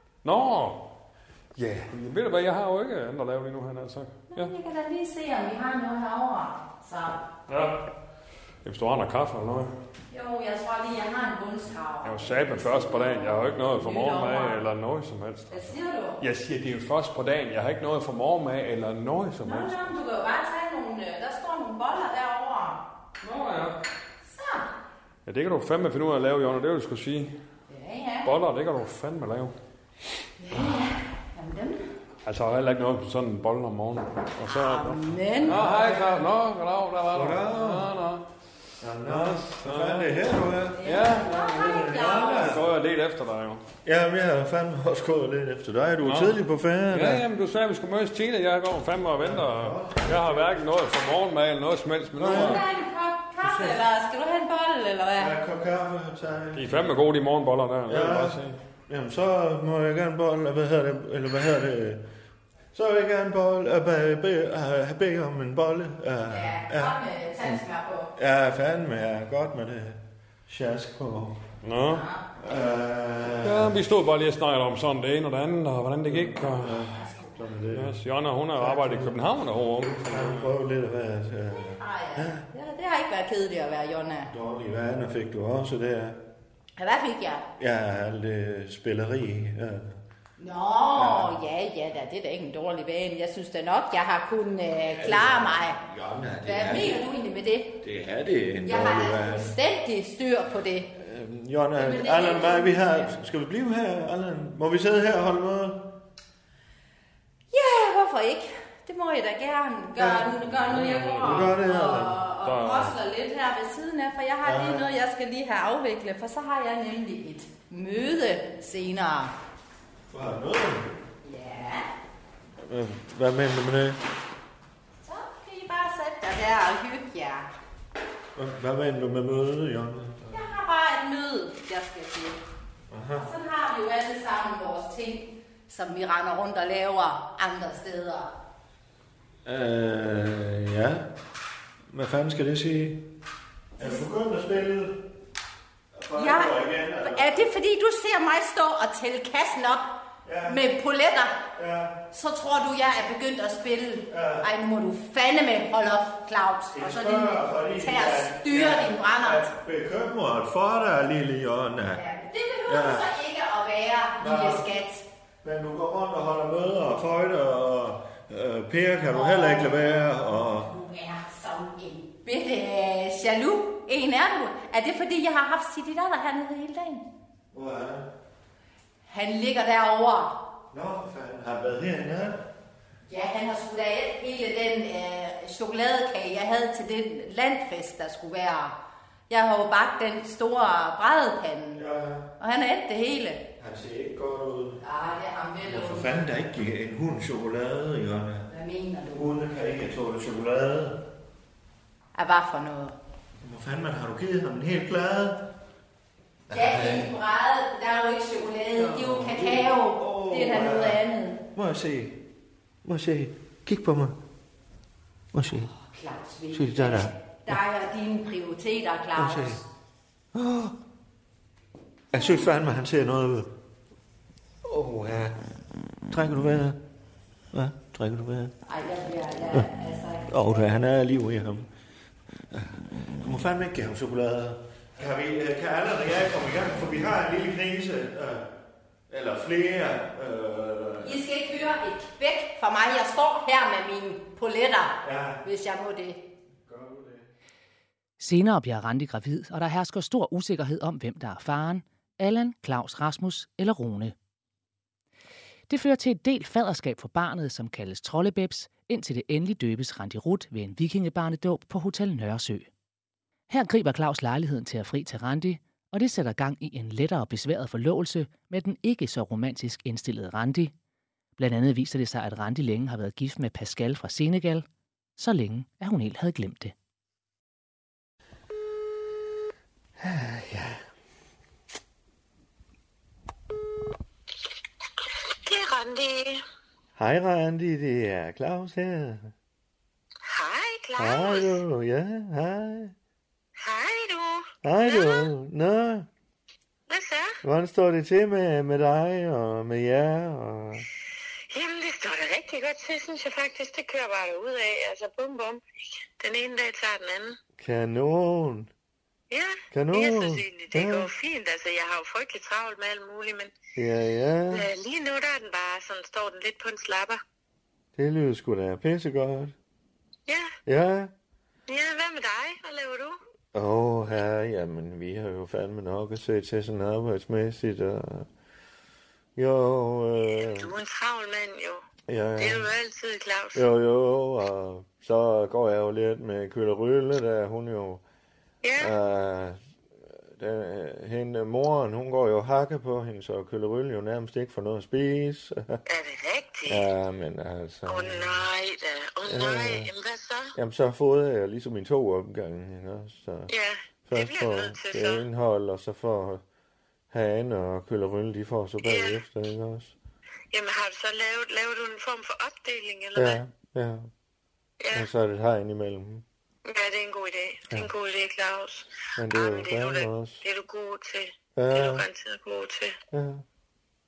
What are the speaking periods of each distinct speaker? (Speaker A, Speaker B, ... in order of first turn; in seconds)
Speaker A: 0.2-0.9, 1.6-4.5, 7.5-7.8, 8.6-9.7, 12.0-19.8, 23.2-23.8, 25.3-27.3, 28.2-29.5, 32.2-38.2, 39.0-40.2, 40.8-43.6, 46.0-46.4, 46.9-52.6, 56.5-58.5, 71.6-72.0, 73.4-76.9, 77.7-80.5, 110.5-111.5, 112.4-113.0
Speaker B: 4.3-7.2, 10.1-14.6, 15.5-16.2, 19.4-22.8, 24.3-24.7, 27.7-28.3, 30.4-31.9, 34.4-36.0, 40.8-42.5, 52.2-55.4, 66.3-68.1, 71.8-72.2, 76.9-77.3, 81.5-84.3, 86.8-87.5, 90.4-95.8, 96.4-97.8, 98.6-100.9, 101.8-103.1, 107.5-119.3, 121.2-121.9, 125.0-127.5, 130.3-132.4, 133.1-138.3, 146.2-151.4, 152.1-159.5, 161.9-165.1, 169.1-177.1, 179.1-180.3, 183.1-188.7, 189.3-191.8, 192.4-193.4, 194.8-196.2, 198.5-199.3, 202.1-202.9, 206.5-211.4, 215.4-219.6, 222.1-222.4, 228.7-230.6, 241.0-246.2
Speaker C: 37.1-37.9, 38.8-42.7, 43.8-47.2, 49.2-50.6, 52.2-52.6, 55.1-57.0, 57.9-62.0, 62.7-67.6, 68.2-71.5, 72.4-73.8, 76.1-78.0, 78.5-79.2, 79.8-82.5, 84.3-86.2, 87.6-90.0, 90.9-91.4, 94.8-97.0, 97.8-99.6, 101.0-105.9, 110.0-110.3, 111.2-112.2, 114.4-114.9, 120.1-120.9, 122.6-124.0, 128.3-130.5, 132.9-133.3, 139.4-141.1, 141.9-143.0, 143.8-144.9, 145.9-147.5, 150.2-150.7, 151.5-152.0, 154.1-154.5, 156.7-162.1, 162.7-163.2, 164.2-164.7, 165.4-170.7, 177.5-178.1, 180.7-182.4, 191.7-192.3, 193.6-194.8, 195.6-198.5, 199.1-201.0, 203.4-205.4, 206.5-207.1, 208.7-211.0, 211.5-212.2, 212.8-214.2, 215.3-215.7, 216.5-217.6, 219.1-219.6, 220.3-220.8, 222.1-223.5, 224.6-225.4, 226.1-226.8, 227.5-228.6, 230.3-231.7, 232.5-238.5, 239.1-241.2, 245.0-245.4, 246.7-247.3, 280.0-280.8, 287.0-289.3, 291.0-292.9, 294.6-296.1, 297.4-300.8, 307.6-308.7, 309.7-311.1, 313.8-314.7, 317.9-319.6, 320.6-321.1, 323.5-328.3, 329.4-330.7, 332.1-332.7, 333.6-338.0, 338.8-339.6, 340.3-345.8, 346.7-348.4, 349.3-349.9, 350.6-353.5, 354.1-356.4, 357.1-359.9, 363.1-364.1, 364.9-366.2, 369.2-370.4, 371.6-372.1, 373.1-373.4
Speaker D: 248.2-254.1, 255.7-262.7, 263.5-270.7, 271.4-274.6, 275.2-276.7
Speaker E: 285.4-286.4, 290.3-291.6, 293.6-295.3, 296.9-297.4, 301.5-305.6, 306.2-307.4, 309.3-313.5, 314.5-317.2, 320.3-320.5, 321.7-323.1, 330.2-331.8, 332.4-333.6, 338.6-338.9, 345.9-346.9, 347.9-350.6, 353.5-355.2, 358.8-359.2, 360.5-363.4, 364.8-365.1, 366.7-372.9